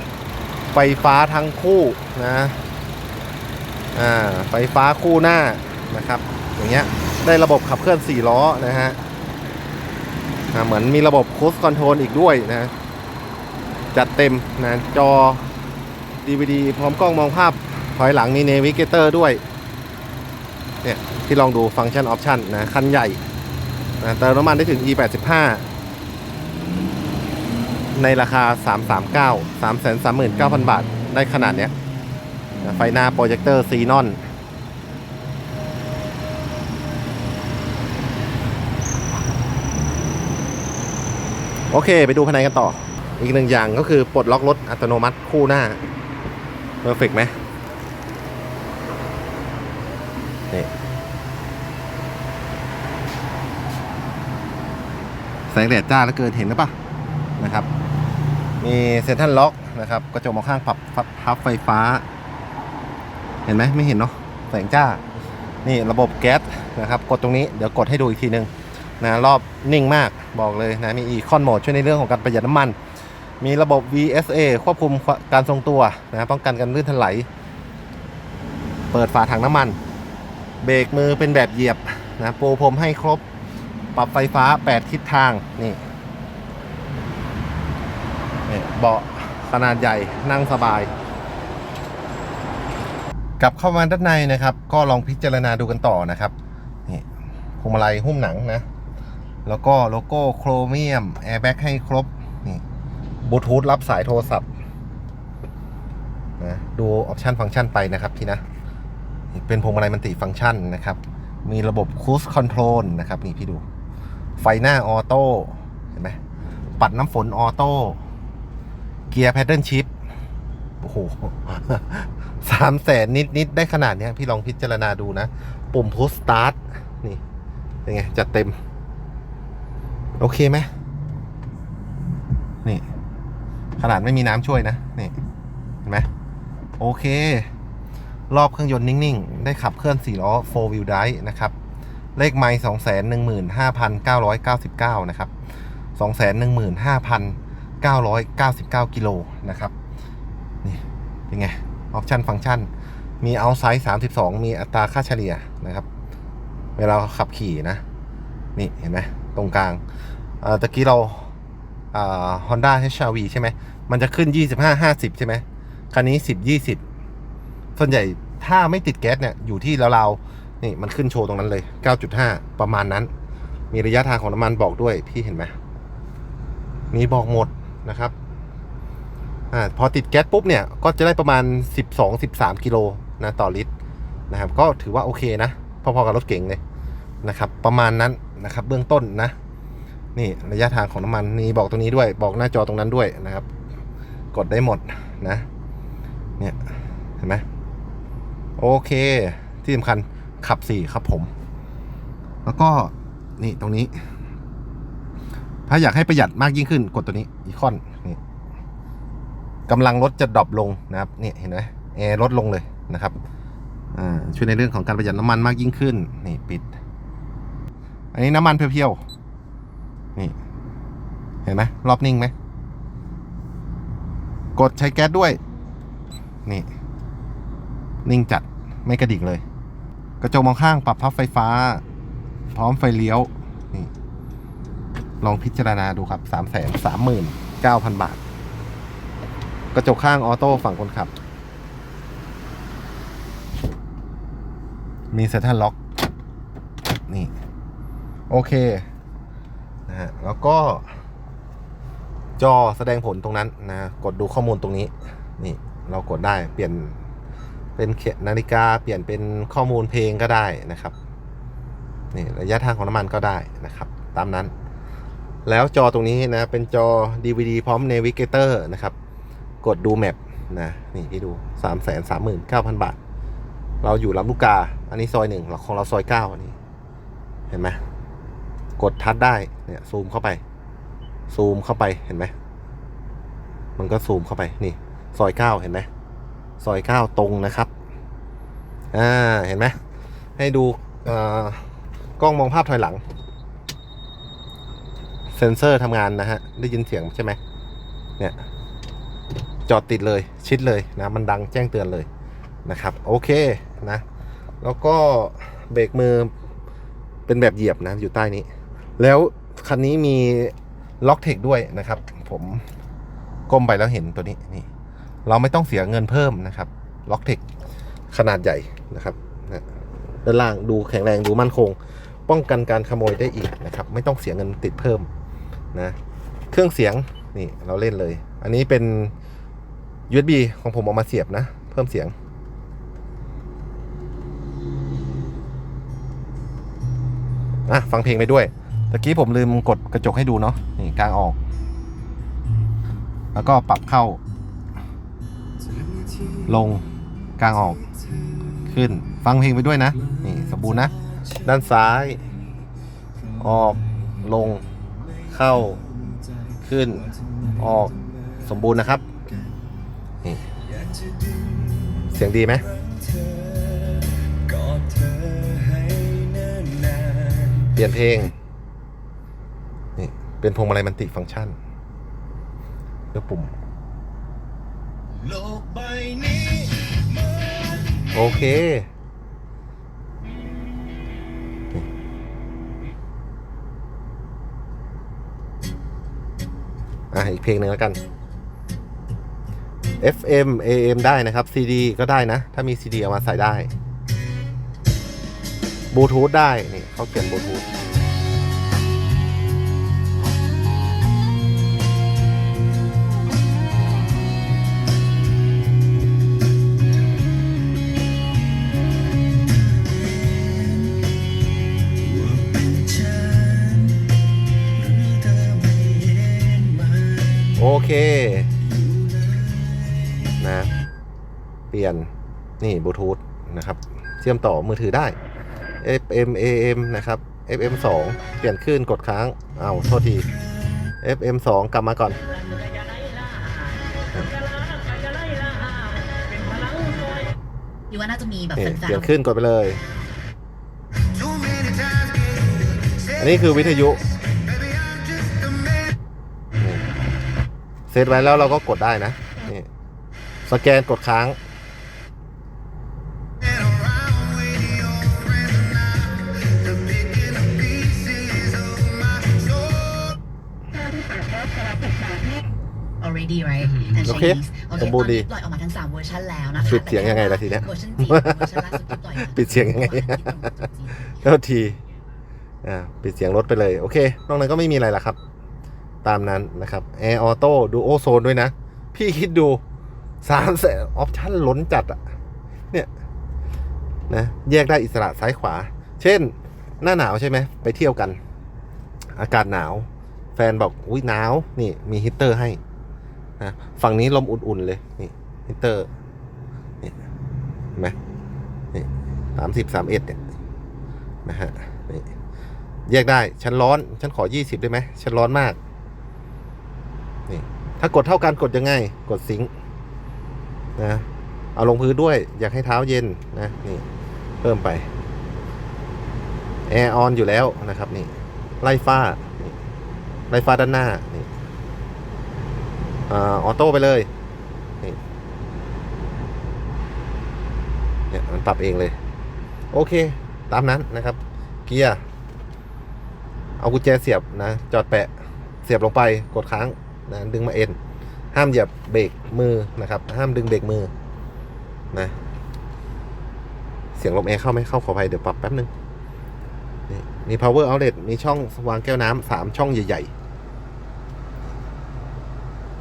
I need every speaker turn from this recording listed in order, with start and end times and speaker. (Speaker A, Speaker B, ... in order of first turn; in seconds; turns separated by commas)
Speaker A: 0.7-2.6, Speaker A: 4.0-9.0, Speaker A: 10.5-12.7, Speaker A: 13.9-15.4, Speaker A: 16.2-19.4, Speaker A: 20.8-23.2, Speaker A: 24.0-25.7, Speaker A: 28.0-31.7, Speaker A: 32.6-34.2, Speaker A: 41.7-45.8, Speaker A: 46.8-47.4, Speaker A: 55.5-56.8, Speaker A: 57.4-57.7, Speaker A: 58.6-62.0, Speaker A: 63.5-65.0, Speaker A: 65.6-68.5, Speaker A: 69.0-72.8, Speaker A: 73.4-77.3, Speaker A: 78.9-79.8, Speaker A: 80.6-83.2, Speaker A: 84.0-85.8, Speaker A: 88.5-90.9, Speaker A: 93.4-96.3, Speaker A: 97.6-98.7, Speaker A: 99.5-102.6, Speaker A: 103.2-104.5, Speaker A: 106.4-108.4, Speaker A: 109.3-113.6, Speaker A: 114.4-116.2, Speaker A: 116.8-118.0, Speaker A: 119.1-119.9, Speaker A: 120.8-127.2, Speaker A: 127.9-128.6, Speaker A: 130.2-130.7, Speaker A: 133.8-135.1, Speaker A: 136.8-137.5, Speaker A: 138.3-141.5, Speaker A: 142.2-145.3, Speaker A: 146.0-149.7, Speaker A: 150.6-152.7, Speaker A: 153.2-155.8, Speaker A: 156.8-157.8, Speaker A: 158.6-159.8, Speaker A: 160.4-161.3, Speaker A: 161.9-166.8, Speaker A: 167.8-173.1, Speaker A: 173.7-175.5, Speaker A: 176.9-178.1, Speaker A: 179.5-183.7, Speaker A: 184.3-186.6, Speaker A: 187.2-189.3, Speaker A: 190.2-193.5, Speaker A: 194.3-195.5, Speaker A: 198.6-201.3, Speaker A: 202.4-203.9, Speaker A: 205.7-208.2, Speaker A: 209.7-213.2, Speaker A: 213.9-216.7, Speaker A: 218.1-219.0, Speaker A: 221.5-222.3, Speaker A: 224.6-225.4, Speaker A: 228.1-229.4, Speaker A: 230.2-231.8, Speaker A: 232.6-233.9, Speaker A: 235.2-238.2, Speaker A: 239.7-241.1, Speaker A: 245.1-245.8, Speaker A: 248.3-248.9, Speaker A: 249.9-250.9, Speaker A: 252.4-257.0, Speaker A: 257.8-260.9, Speaker A: 262.1-264.5, Speaker A: 265.5-268.9, Speaker A: 269.6-273.0, Speaker A: 273.8-276.6, Speaker A: 277.5-277.8, Speaker A: 278.8-280.4, Speaker A: 281.3-282.3, Speaker A: 283.8-285.9, Speaker A: 286.6-287.7, Speaker A: 288.9-289.8, Speaker A: 290.4-291.6, Speaker A: 292.2-293.0, Speaker A: 295.3-297.4, Speaker A: 299.7-302.1, Speaker A: 302.7-304.0, Speaker A: 304.6-306.3, Speaker A: 307.3-308.5, Speaker A: 309.0-312.6, Speaker A: 313.5-314.7, Speaker A: 315.3-317.4, Speaker A: 318.1-319.6, Speaker A: 320.2-321.8, Speaker A: 322.3-325.1, Speaker A: 326.5-329.1, Speaker A: 330.1-332.1, Speaker A: 337.7-341.4, Speaker A: 343.4-344.2, Speaker B: 345.6-346.8, Speaker A: 346.5-346.8, Speaker A: 347.4-347.8, Speaker B: 347.8-348.7, Speaker A: 348.7-350.9, Speaker B: 350.0-351.7, Speaker A: 351.4-352.2, Speaker B: 353.1-359.7, Speaker A: 353.4-354.6, Speaker A: 355.3-355.8, Speaker A: 356.6-357.9, Speaker A: 358.4-359.0, Speaker B: 360.5-367.8, Speaker A: 362.1-362.6, Speaker A: 367.8-368.3, Speaker A: 370.0-371.6, Speaker A: 373.1-373.5, Speaker B: 375.1-378.4, Speaker A: 378.1-378.9, Speaker A: 387.1-388.0, Speaker A: 390.0-393.7, Speaker A: 395.9-397.7, Speaker B: 409.7-417.7, Speaker A: 417.6-418.5, Speaker B: 418.5-420.4, Speaker A: 420.4-420.7, Speaker A: 421.7-422.1, Speaker A: 422.6-425.2, Speaker A: 425.8-430.3, Speaker A: 431.0-432.2, Speaker C: 432.5-433.8, Speaker C: 434.8-437.2, Speaker C: 437.9-439.1, Speaker A: 438.6-439.8, Speaker B: 441.2-443.1, Speaker A: 443.2-444.0, Speaker B: 444.9-445.5, Speaker A: 447.9-449.7, Speaker A: 450.5-451.4, Speaker C: 454.1-454.6, Speaker B: 454.7-455.1, Speaker B: 456.7-457.8, Speaker C: 463.0-471.2, Speaker A: 464.1-465.3, Speaker A: 466.6-468.6, Speaker A: 469.2-470.5, Speaker A: 471.1-471.8, Speaker A: 472.6-475.2, Speaker A: 476.0-479.6, Speaker A: 480.2-482.0, Speaker A: 484.1-488.2, Speaker A: 489.2-492.6, Speaker A: 493.4-495.9, Speaker A: 498.7-500.2, Speaker A: 501.2-502.1, Speaker A: 502.9-505.6, Speaker A: 507.3-509.5, Speaker A: 510.8-513.9, Speaker A: 514.4-514.9, Speaker A: 516.7-518.1, Speaker A: 518.6-519.5, Speaker A: 520.3-521.3, Speaker A: 523.1-524.1, Speaker A: 528.1-529.0, Speaker A: 529.7-532.0, Speaker A: 533.6-535.1, Speaker A: 535.6-537.8, Speaker A: 538.3-540.9, Speaker A: 544.0-545.7, Speaker A: 546.9-550.1